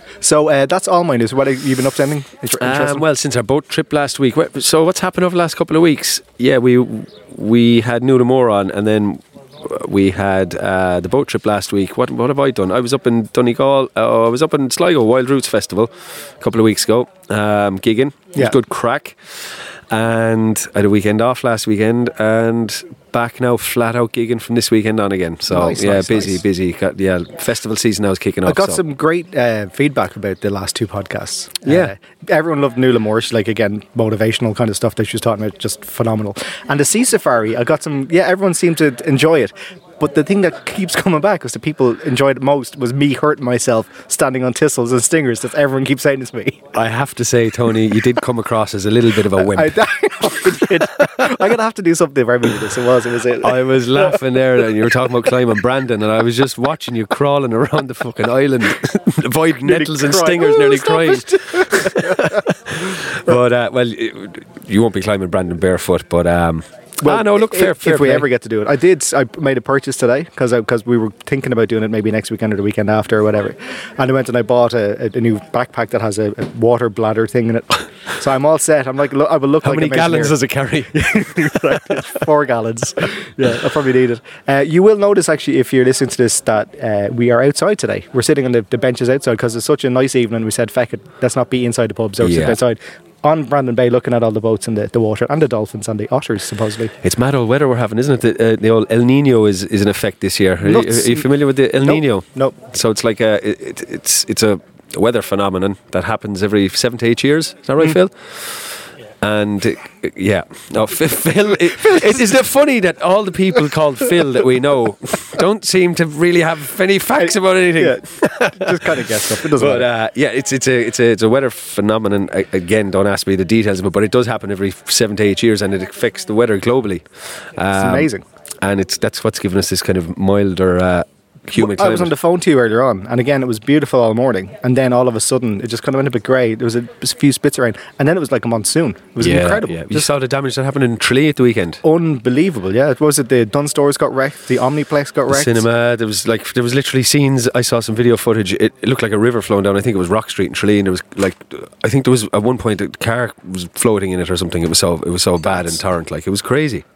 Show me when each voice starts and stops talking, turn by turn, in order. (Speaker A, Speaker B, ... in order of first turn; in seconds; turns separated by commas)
Speaker A: 0.2-3.0, Speaker B: 2.6-28.8, Speaker A: 25.5-26.4, Speaker A: 28.5-46.6, Speaker B: 31.6-31.9, Speaker B: 46.7-49.8, Speaker A: 49.3-54.2, Speaker B: 50.6-51.3, Speaker B: 53.4-68.3, Speaker A: 59.6-62.4, Speaker A: 67.0-80.4, Speaker B: 79.6-81.5, Speaker A: 80.9-96.9, Speaker B: 92.2-92.6, Speaker B: 97.0-127.0, Speaker A: 100.6-101.3, Speaker A: 101.8-102.6, Speaker A: 117.2-119.9, Speaker B: 127.6-128.1, Speaker A: 127.7-128.2, Speaker B: 128.6-132.1, Speaker A: 131.6-140.1, Speaker B: 139.2-141.8, Speaker A: 141.8-145.6, Speaker B: 145.3-156.8